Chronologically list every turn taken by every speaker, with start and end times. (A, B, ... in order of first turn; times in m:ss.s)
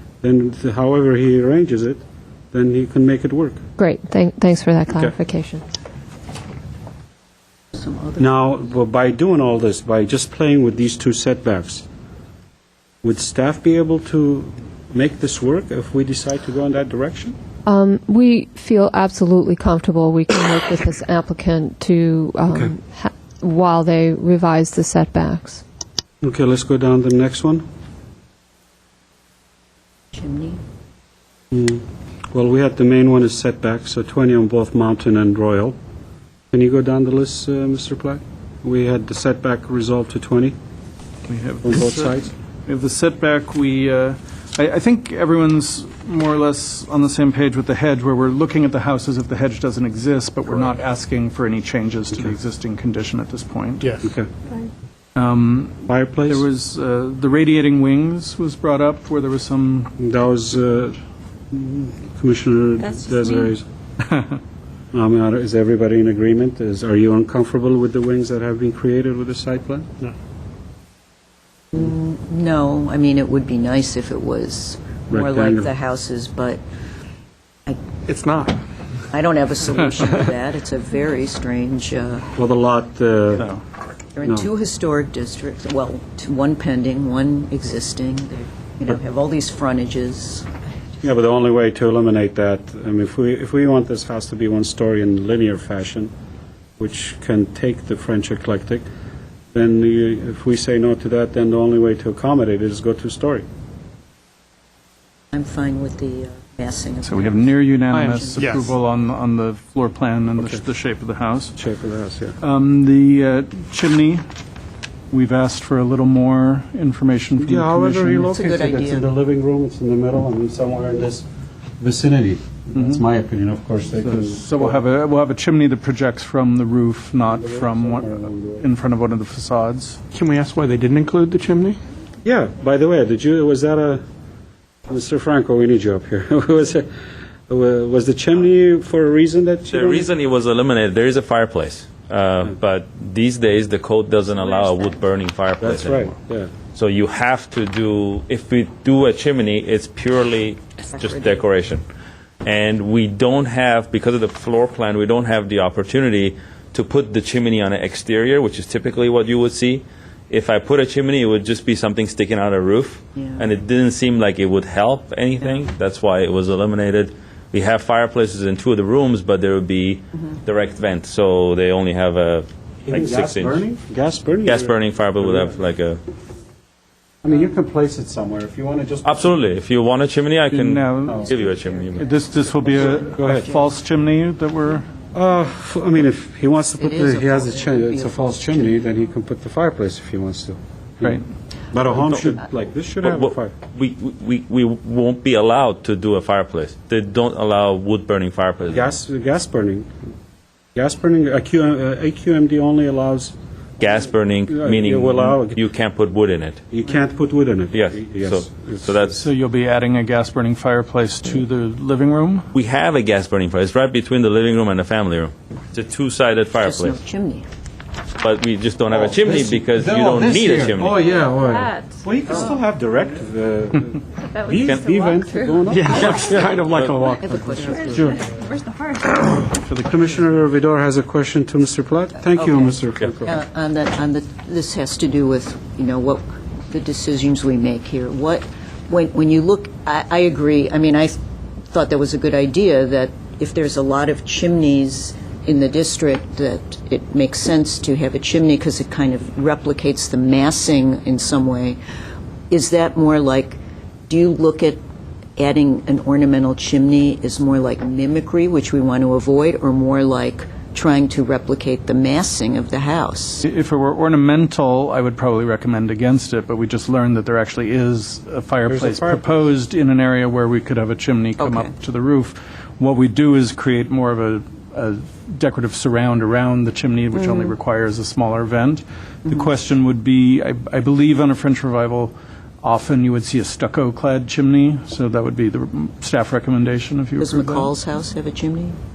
0:00.2-0:02.0 A
0:02.5-0:03.6 A
0:03.8-0:05.6 B
0:04.9-0:05.1 A
0:07.7-0:08.2 C
0:08.2-0:11.8 A
0:13.0-0:17.4 A
0:17.6-0:25.6 B
0:26.2-0:27.6 A
0:30.1-0:30.6 C
0:31.5-0:35.8 A
0:36.5-0:40.6 A
0:41.3-0:53.9 D
0:41.6-0:42.3 A
0:53.8-0:54.0 E
0:54.0-0:54.3 A
0:55.2-0:59.9 D
0:55.9-0:56.5 A
1:00.0-1:01.0 A
1:01.5-1:03.6 A
1:04.9-1:10.1 A
1:11.7-1:16.6 C
1:15.1-1:15.7 A
1:18.1-1:18.6 E
1:19.1-1:22.3 C
1:22.4-1:23.5 A
1:24.2-1:30.5 C
1:24.2-1:24.5 A
1:31.0-1:36.1 A
1:36.8-1:38.8 A
1:39.5-1:43.4 A
1:45.3-1:48.5 C
1:47.0-1:51.5 D
1:47.9-1:48.8 E
1:51.6-1:52.4 A
1:52.4-1:54.2 D
1:55.1-1:58.2 D
1:57.4-2:01.2 A
1:58.3-1:59.0 C
2:01.8-2:04.8 A
2:02.8-2:03.0 D
2:04.0-2:10.0 D
2:07.2-2:08.6 A
2:10.1-2:11.8 E
2:12.2-2:14.0 A
2:14.9-2:16.9 A
2:17.5-2:20.1 A
2:19.7-2:26.1 F
2:24.5-2:24.8 C
2:25.6-2:26.5 A
2:26.7-2:31.8 F
2:30.9-2:31.4 C
2:32.4-2:53.6 F
2:43.2-2:43.4 C
2:52.8-2:55.5 A
2:54.4-2:56.0 F
2:57.2-2:59.4 A
2:59.0-3:02.0 F
3:00.5-3:01.2 D
3:01.0-3:01.3 A
3:02.0-3:04.9 D
3:02.8-3:03.5 A
3:05.1-3:11.2 A
3:06.8-3:08.6 C
3:11.7-3:13.5 A
3:12.0-3:12.4 F
3:13.0-3:18.9 F
3:18.7-3:19.9 A
3:20.7-3:23.3 A
3:23.8-3:26.6 F
3:24.5-3:25.6 A
3:26.7-3:29.2 A
3:27.7-3:29.2 F
3:29.1-3:32.5 D
3:32.5-3:37.0 F
3:36.6-3:37.4 C
3:38.2-3:41.0 F
3:38.9-3:46.2 A
3:40.9-3:42.0 G
3:44.4-3:46.3 G
3:45.7-3:47.8 E
3:46.3-3:47.0 F
3:47.1-3:48.2 C
3:47.8-3:49.2 G
3:47.9-3:48.3 A
3:49.5-3:49.9 D
3:49.8-3:53.4 A
3:52.4-4:01.2 C
4:01.7-4:11.8 C
4:12.5-4:14.8 C
4:15.4-4:23.4 C
4:23.4-4:47.7 D
4:28.7-4:29.4 A
4:31.4-4:31.7 C
4:47.2-4:48.8 C